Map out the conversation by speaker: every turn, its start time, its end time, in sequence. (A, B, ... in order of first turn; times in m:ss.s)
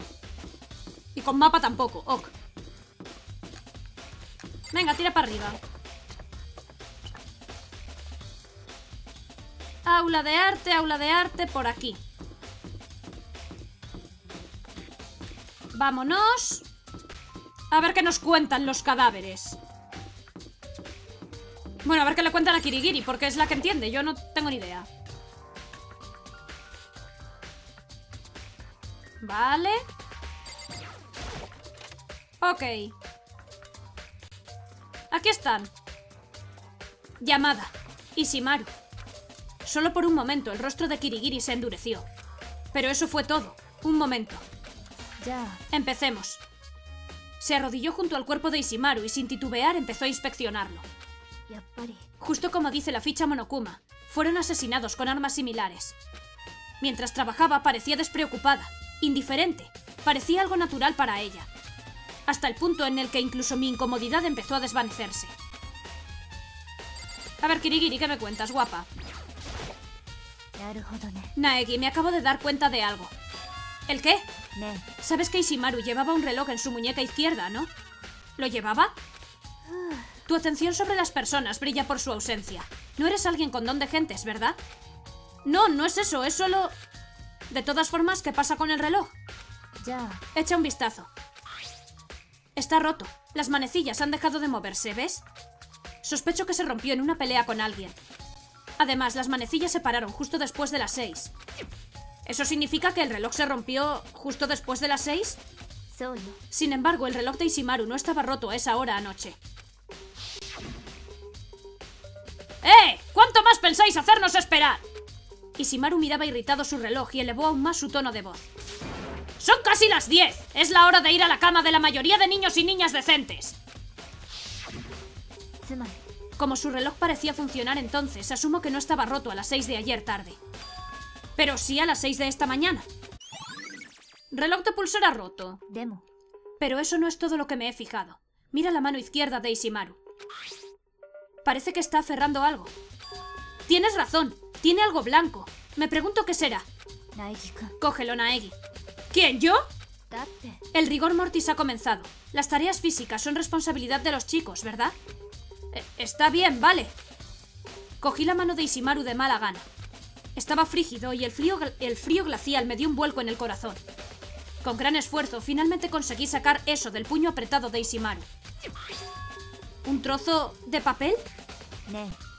0:01.2-0:02.3 A
0:04.7-0:05.6 A
0:09.8-0:12.0 A
0:15.7-0:16.6 A
0:17.7-0:19.6 A
0:21.8-0:24.9 A
0:29.2-0:29.8 A
0:32.4-0:32.9 A
0:35.1-0:35.7 A
0:37.2-0:38.7 A
0:39.6-0:42.0 A
0:42.7-0:44.4 A
0:45.2-0:45.6 B
0:45.7-0:46.4 A
0:47.4-0:50.8 A
0:51.5-0:52.0 B
0:52.2-0:56.0 A
0:56.8-1:01.5 A
1:02.3-1:05.3 A
1:07.4-1:08.9 A
1:10.6-1:11.3 B
1:11.4-1:13.1 A
1:13.9-1:14.2 A
1:14.6-1:14.8 B
1:15.0-1:17.7 A
1:18.4-1:18.9 A
1:19.7-1:20.1 B
1:20.3-1:24.6 A
1:25.4-1:26.7 A
1:27.5-1:29.1 A
1:29.8-1:30.2 B
1:30.3-1:31.1 A
1:32.5-1:35.2 A
1:36.0-1:38.0 A
1:38.8-1:41.3 A
1:42.2-1:45.4 A
1:45.9-1:46.4 B
1:46.5-1:49.4 A
1:52.6-1:54.8 A
1:55.6-1:58.5 A
1:59.4-2:03.6 A
2:05.6-2:06.0 B
2:06.4-2:10.4 A
2:11.4-2:12.9 A
2:14.3-2:15.6 A
2:15.7-2:16.0 B
2:16.6-2:20.0 A
2:21.4-2:22.7 A
2:23.7-2:26.7 A
2:27.2-2:27.7 B
2:27.8-2:28.6 A
2:29.1-2:29.6 A
2:30.1-2:30.6 B
2:30.7-2:34.9 A
2:35.7-2:36.9 A
2:38.0-2:39.6 A
2:40.4-2:43.8 A
2:44.6-2:48.3 A
2:49.8-2:51.2 A
2:51.9-2:52.2 B